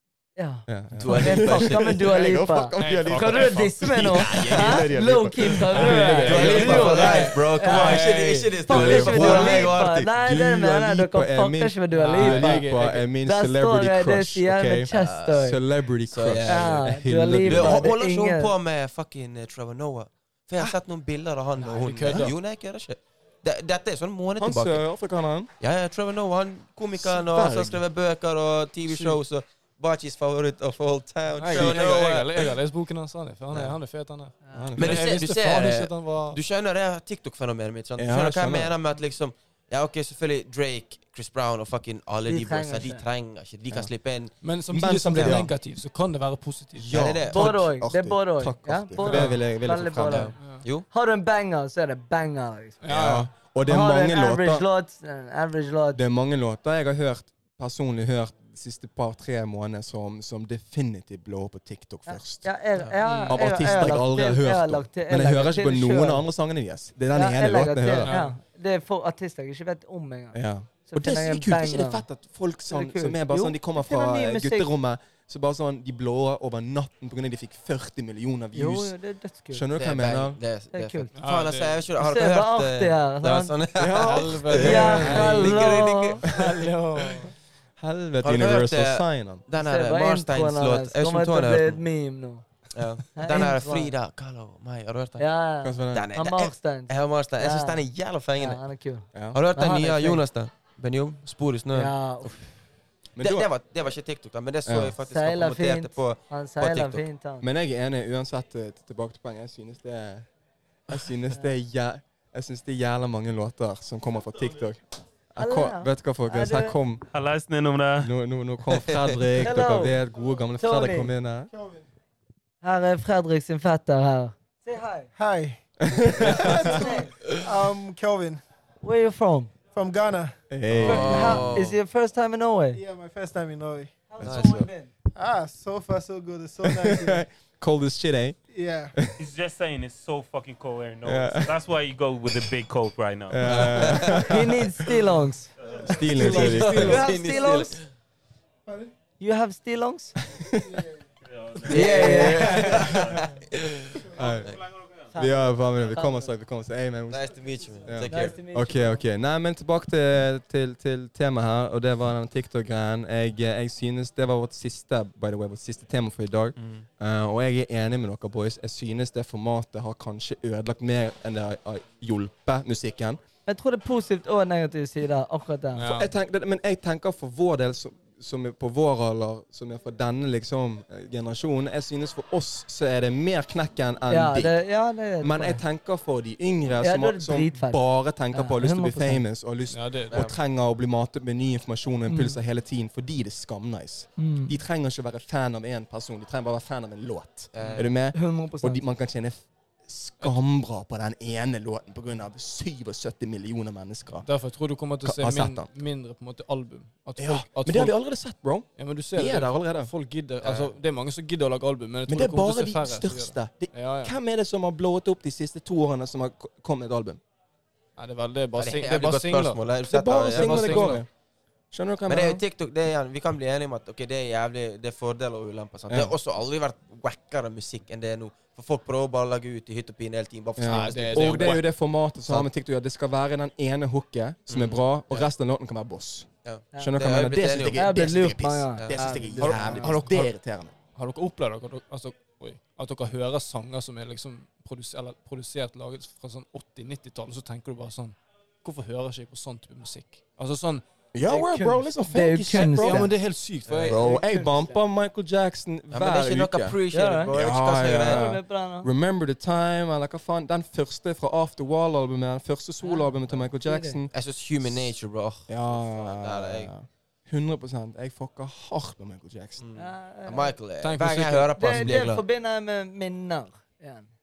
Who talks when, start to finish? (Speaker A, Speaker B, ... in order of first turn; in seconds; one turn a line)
Speaker A: 0.4-12.7
Speaker B: 0.7-7.3
Speaker C: 0.9-1.9
Speaker D: 2.8-4.4
Speaker C: 4.3-4.8
Speaker D: 5.7-9.5
Speaker C: 6.3-10.1
Speaker B: 8.7-17.9
Speaker D: 12.0-13.1
Speaker A: 13.2-15.6
Speaker C: 14.9-15.5
Speaker C: 16.1-16.8
Speaker A: 16.5-18.5
Speaker C: 17.4-24.8
Speaker D: 21.6-22.3
Speaker B: 24.4-25.5
Speaker C: 25.6-32.6
Speaker B: 26.9-27.8
Speaker D: 28.9-29.2
Speaker D: 31.4-36.4
Speaker B: 31.5-31.8
Speaker C: 33.5-33.8
Speaker A: 34.5-34.7
Speaker B: 34.5-35.0
Speaker C: 34.8-44.4
Speaker B: 38.0-38.8
Speaker A: 42.3-43.0
Speaker D: 44.4-47.0
Speaker B: 44.7-45.5
Speaker C: 45.1-45.5
Speaker B: 46.8-50.3
Speaker C: 46.9-47.6
Speaker A: 47.3-52.9
Speaker D: 49.1-49.4
Speaker C: 50.1-50.9
Speaker D: 52.8-53.3
Speaker B: 52.9-54.7
Speaker A: 53.6-56.0
Speaker B: 55.9-62.5
Speaker A: 62.1-66.3
Speaker D: 62.9-64.0
Speaker B: 63.1-68.1
Speaker A: 67.1-72.1
Speaker D: 68.0-68.3
Speaker B: 70.3-78.9
Speaker A: 72.7-74.7
Speaker A: 78.5-79.7
Speaker B: 79.5-80.4
Speaker C: 79.8-86.6
Speaker A: 80.7-81.1
Speaker D: 81.2-81.8
Speaker A: 82.0-83.5
Speaker B: 83.8-85.4
Speaker D: 84.0-87.3
Speaker A: 84.5-86.2
Speaker B: 87.8-89.4
Speaker C: 88.2-91.8
Speaker A: 89.6-92.5
Speaker C: 92.7-95.2
Speaker A: 93.2-93.9
Speaker A: 95.2-97.9
Speaker B: 95.6-96.1
Speaker C: 95.9-98.6
Speaker A: 98.4-100.2
Speaker B: 99.1-99.4
Speaker C: 99.3-101.9
Speaker A: 101.7-102.4
Speaker B: 103.1-103.5
Speaker C: 103.2-107.0
Speaker B: 104.7-105.0
Speaker A: 105.0-107.5
Speaker B: 107.4-110.3
Speaker B: 110.9-114.8
Speaker B: 115.3-117.0
Speaker A: 115.4-116.8
Speaker E: 117.1-118.1
Speaker B: 118.0-121.5
Speaker C: 118.8-119.2
Speaker A: 119.4-120.0
Speaker A: 120.6-121.1
Speaker A: 122.6-125.1
Speaker F: 125.2-125.6
Speaker B: 125.8-126.9
Speaker F: 126.2-128.4
Speaker A: 126.2-127.1
Speaker A: 128.8-129.5
Speaker F: 129.7-130.3
Speaker B: 130.5-131.7
Speaker C: 130.7-131.8
Speaker A: 130.8-132.8
Speaker F: 132.7-134.1
Speaker A: 134.1-134.9
Speaker B: 134.2-134.7
Speaker C: 134.2-134.6
Speaker F: 135.2-137.3
Speaker B: 136.6-138.4
Speaker F: 138.5-139.0
Speaker E: 139.2-144.2
Speaker B: 141.0-141.5
Speaker B: 143.3-144.9
Speaker C: 143.5-144.3
Speaker A: 143.9-147.8
Speaker B: 145.8-147.0
Speaker D: 146.1-147.1
Speaker C: 146.2-147.8
Speaker A: 149.2-150.2
Speaker B: 150.3-150.8
Speaker C: 151.6-154.6
Speaker A: 151.7-153.0
Speaker B: 151.8-153.2
Speaker B: 154.1-154.6
Speaker A: 155.1-156.3
Speaker B: 155.1-157.3
Speaker C: 157.1-158.4
Speaker B: 157.8-173.2
Speaker A: 158.1-159.0
Speaker C: 166.6-166.9
Speaker A: 173.5-175.9
Speaker D: 175.8-176.1
Speaker B: 175.9-184.6
Speaker A: 184.1-185.6
Speaker B: 185.2-204.3
Speaker A: 186.8-187.8
Speaker A: 188.3-189.2
Speaker D: 189.7-190.2
Speaker C: 190.1-190.4
Speaker A: 192.1-192.4
Speaker A: 194.2-194.6
Speaker C: 197.5-197.9
Speaker D: 197.6-197.9
Speaker A: 198.1-198.8
Speaker D: 204.2-207.9
Speaker B: 205.0-205.7
Speaker B: 207.2-209.9
Speaker D: 208.8-214.2
Speaker C: 210.4-210.7
Speaker B: 212.1-217.2
Speaker D: 218.0-219.6
Speaker C: 218.6-221.0
Speaker B: 219.9-221.1
Speaker D: 220.3-221.1
Speaker B: 221.7-222.4
Speaker C: 222.1-231.6
Speaker B: 225.9-226.2
Speaker B: 230.6-240.7
Speaker D: 230.7-231.6
Speaker C: 234.5-235.3
Speaker C: 236.4-237.9
Speaker A: 237.8-240.0
Speaker C: 238.8-239.2
Speaker D: 239.4-240.3
Speaker D: 240.9-250.8
Speaker B: 251.1-253.1
Speaker A: 251.3-253.1
Speaker D: 252.5-254.2
Speaker B: 253.8-256.8
Speaker A: 253.9-254.8
Speaker C: 255.9-258.3
Speaker A: 256.9-258.9
Speaker B: 257.3-264.1
Speaker A: 262.8-264.0
Speaker C: 264.1-266.7
Speaker B: 264.6-264.9
Speaker B: 265.5-269.6
Speaker C: 269.6-272.2
Speaker A: 269.8-270.6
Speaker D: 270.8-271.8
Speaker A: 271.6-274.1